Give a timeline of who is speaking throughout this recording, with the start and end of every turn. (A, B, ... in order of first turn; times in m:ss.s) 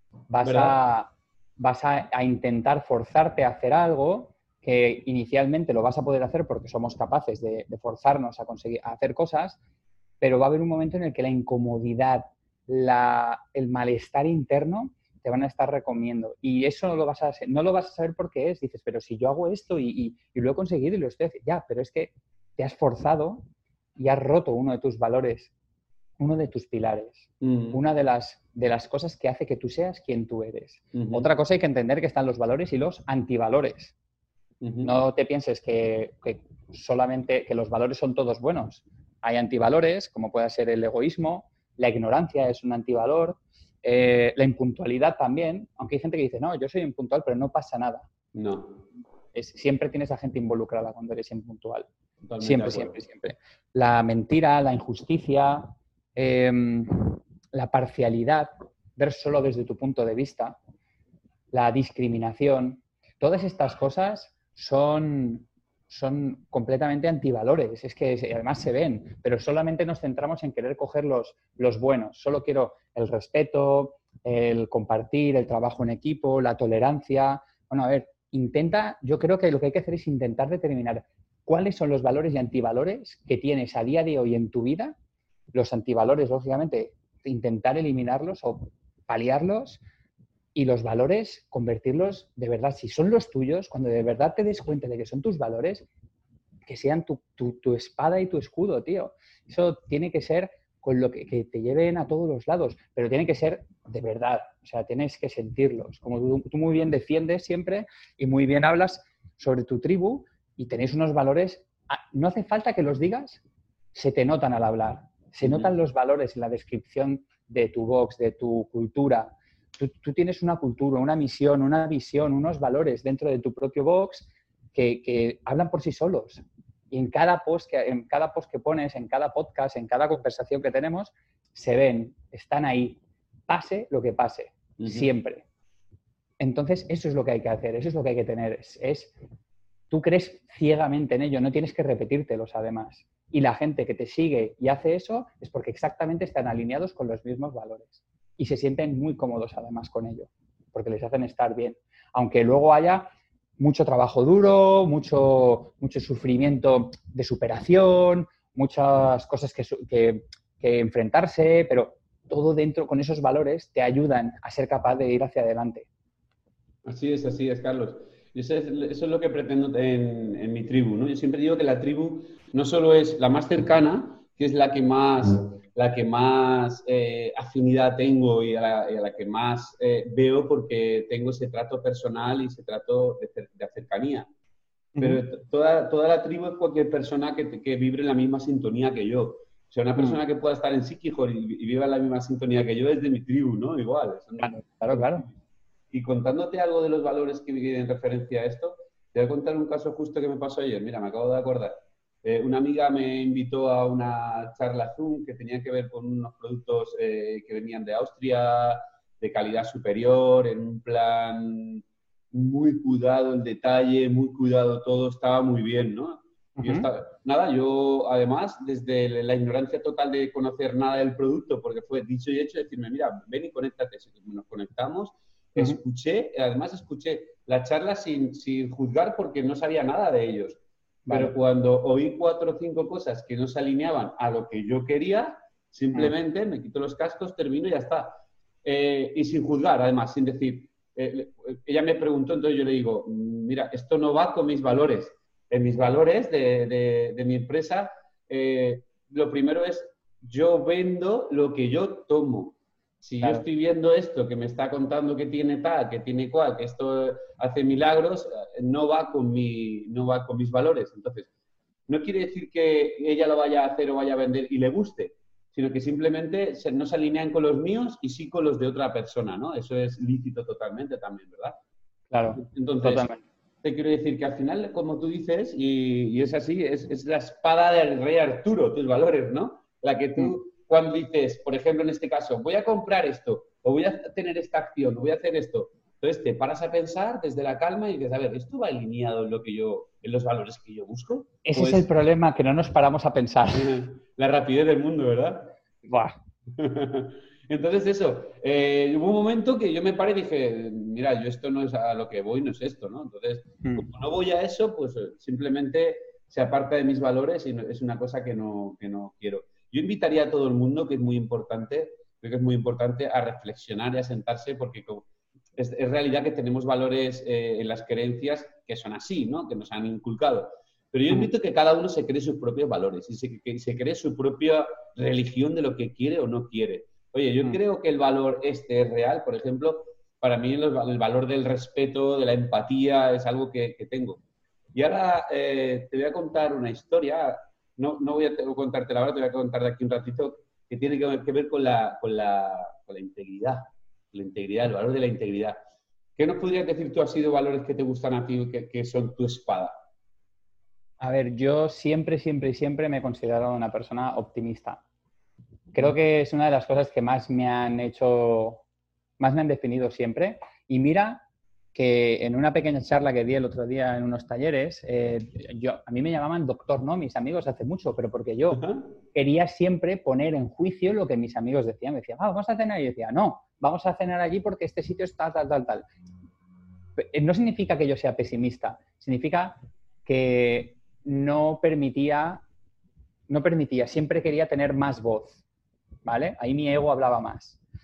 0:00.3-0:09.6 A
0:00.4-0:00.8 B
0:10.2-0:23.4 A
0:24.0-0:25.5 A
0:26.2-0:33.9 A
0:27.4-0:27.8 B
0:30.9-0:31.2 B
0:34.6-0:34.9 B
0:34.8-0:48.1 A
0:48.3-0:48.8 B
0:49.3-0:51.9 A
0:52.2-0:53.0 B
0:52.4-1:00.6 A
1:01.5-1:25.0 A
1:25.5-1:29.8 A
1:30.6-1:35.9 A
1:36.7-1:53.4 A
1:53.9-2:15.5 A
1:55.4-1:55.7 B
2:14.8-2:15.1 B
2:16.4-2:19.1 A
2:19.9-2:45.9 A
2:46.8-3:04.3 B
3:05.0-3:05.2 A
3:05.0-3:15.3 B
3:14.4-3:15.3 A
3:15.9-4:21.3 B
3:36.6-3:36.9 A
3:51.1-3:51.3 A
4:21.9-4:31.6 B
4:32.1-4:33.2 A
4:32.4-4:33.1 B
4:33.6-4:51.9 B
4:51.5-4:53.8 A
4:53.5-4:55.6 B
4:55.9-4:56.2 A
4:56.5-5:34.2 B
5:03.6-5:03.9 A
5:34.7-5:45.6 B
5:46.2-5:49.8 B
5:51.0-5:54.8 A
5:55.7-5:58.6 A
5:59.2-6:01.2 A
6:01.7-6:15.9 A
6:08.5-6:08.9 B
6:17.0-6:22.4 A
6:23.3-6:25.4 A
6:26.0-6:27.6 A